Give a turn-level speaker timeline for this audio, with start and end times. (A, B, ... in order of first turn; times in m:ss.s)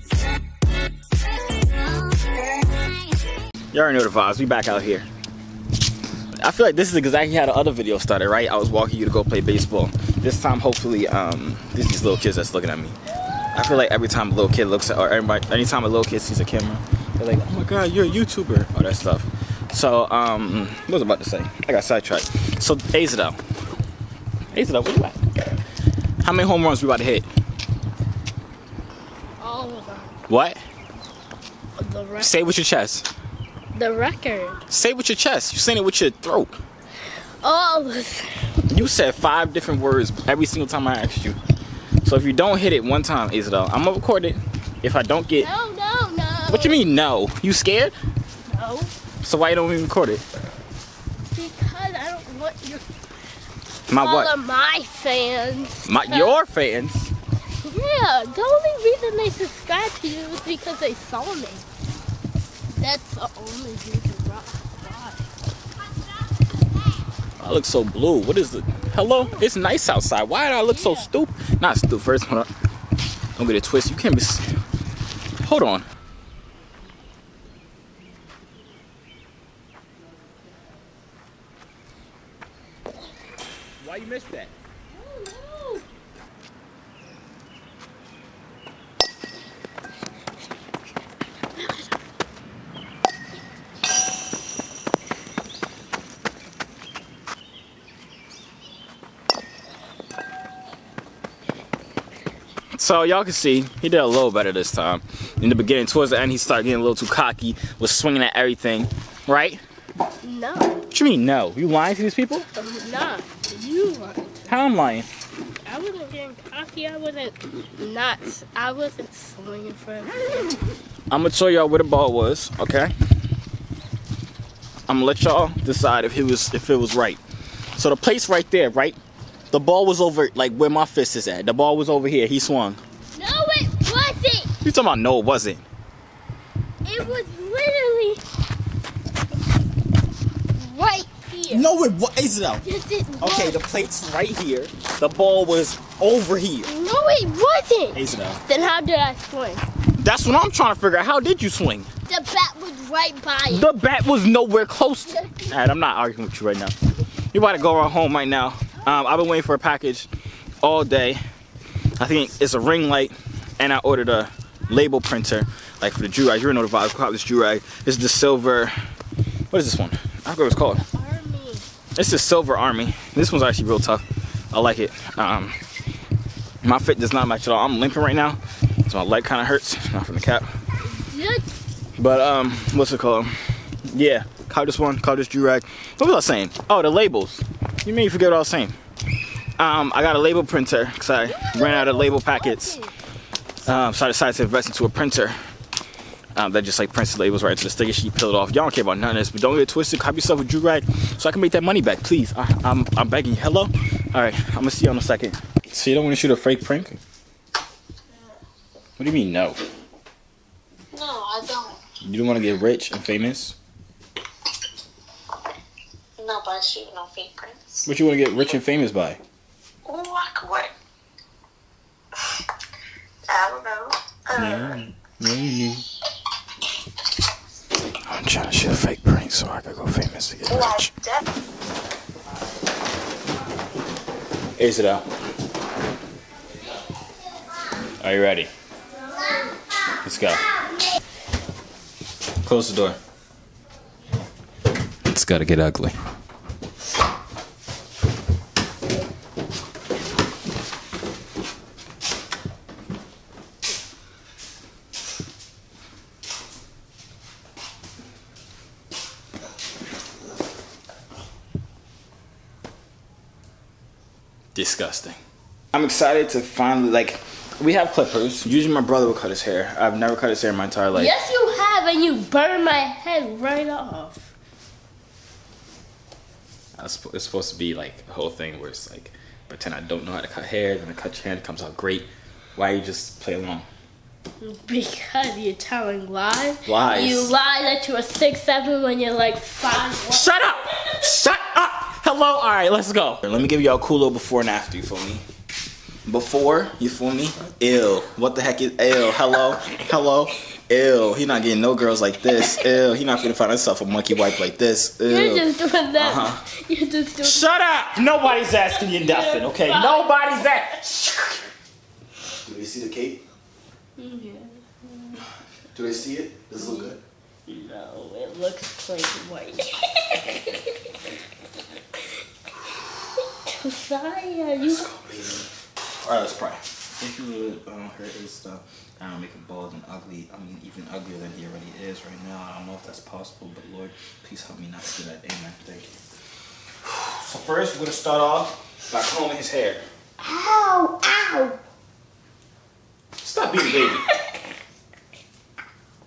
0:03.7-0:05.1 A
0:06.4-0:13.0 A
0:13.5-0:23.4 A
0:24.5-0:25.2 A
0:26.2-0:27.3 A
0:29.4-0:30.1 B
0:30.3-0:30.6 A
0:31.8-0:32.4 B
0:32.2-0:33.1 A
0:33.7-0:34.6 B
0:34.7-0:36.6 A
0:37.4-0:38.5 B
0:38.7-0:41.4 A
0:42.0-0:45.5 A
0:45.4-0:46.8 B
0:46.5-0:47.9 A
0:48.5-0:48.9 B
0:49.2-0:50.2 A
0:51.3-0:52.9 B
0:53.9-0:54.3 A
0:53.9-0:56.4 B
0:55.9-0:57.1 A
0:57.6-1:01.6 B
1:02.7-1:05.3 B
1:07.4-1:12.5 A
1:10.7-1:11.1 B
1:13.4-1:14.4 A
1:15.4-1:15.9 A
1:23.8-1:24.5 A
1:24.9-1:25.8 B
1:31.6-1:31.9 B
1:42.8-1:49.6 A
1:50.2-1:50.8 B
1:50.9-1:52.5 A
1:52.6-1:54.5 B
1:54.5-1:55.1 A
1:55.6-2:00.7 B
2:01.1-2:02.9 A
2:04.9-2:07.2 A
2:07.8-2:09.0 A
2:09.5-2:12.8 A
2:13.2-2:14.5 B
2:14.6-2:15.6 A
2:16.8-2:18.2 B
2:20.6-2:21.7 B
2:21.5-2:22.6 A
2:22.6-2:23.6 B
2:23.2-2:26.7 A
2:26.6-2:29.6 B
2:27.9-2:28.4 A
2:30.0-2:31.9 A
2:32.1-2:33.7 B
2:33.5-2:36.8 A
2:35.1-2:35.5 B
2:37.3-2:40.1 A
2:40.6-2:41.2 A
2:42.0-2:48.7 A
2:49.5-2:50.8 A
2:50.9-2:51.7 B
2:52.0-2:55.6 A
2:56.6-3:00.5 A
3:00.9-3:01.5 B
3:02.0-3:08.8 A
3:09.6-3:12.8 A
3:11.2-3:12.9 B
3:13.7-3:15.4 A
3:16.4-3:27.0 A
3:29.0-3:29.6 A
3:30.9-3:31.8 C
3:32.0-3:33.6 A
3:36.2-3:37.8 C
3:37.9-3:39.2 A
3:39.9-3:40.7 C
3:43.3-3:44.8 C
3:44.3-3:45.9 A
3:48.0-3:50.9 A
3:50.5-3:51.2 C
3:54.6-3:55.0 A
3:58.0-3:58.5 A
4:00.0-4:00.4 A
4:02.4-4:03.0 A
4:05.1-4:06.0 A
4:24.6-4:25.2 A
4:25.7-4:31.2 A
4:30.9-4:34.3 B
4:36.8-4:43.7 A
4:44.4-4:50.9 B
4:46.7-4:47.3 A
4:49.9-4:55.2 A
4:56.1-5:06.4 A
5:05.1-5:07.5 B
5:07.2-5:11.5 A
5:08.2-5:10.3 B
5:12.4-5:13.2 A
5:14.0-5:15.2 B
5:15.7-5:17.0 A
5:16.6-5:16.9 B
5:17.5-5:20.6 B
5:23.4-5:24.9 B
5:24.6-5:25.5 A
5:26.0-5:35.9 A
5:36.8-5:39.8 A
5:40.2-5:41.6 B
5:43.2-5:44.0 A